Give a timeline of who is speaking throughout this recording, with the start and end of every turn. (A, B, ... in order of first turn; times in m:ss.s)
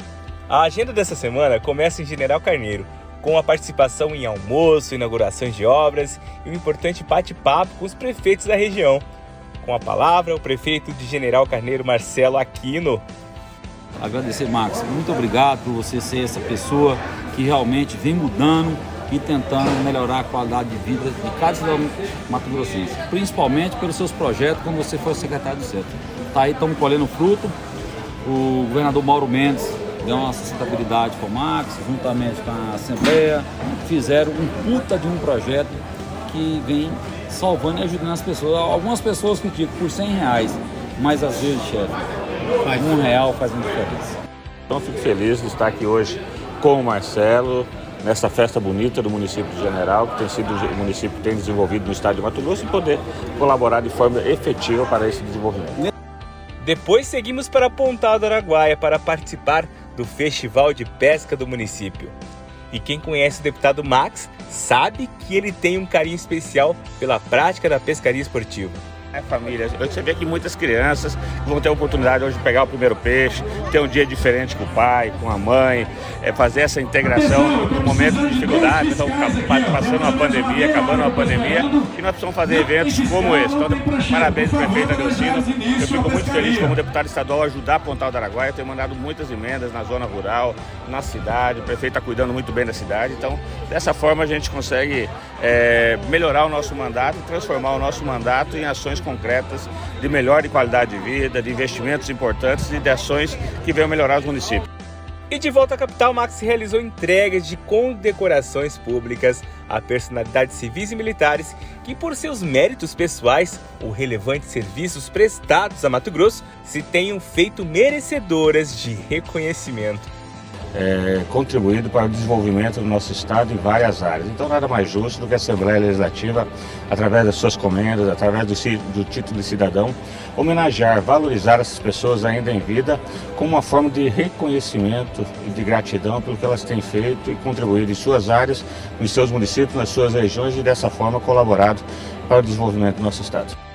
0:00.5-0:09.0 A
0:09.6-0:13.0 A
0:14.0-0:27.6 B
0:28.2-0:42.0 B
0:42.6-0:44.2 B
0:44.7-0:55.8 C
0:56.6-1:02.1 A
1:02.7-1:08.8 A
1:09.1-1:44.6 C
1:45.3-2:00.1 A
2:00.7-2:23.6 C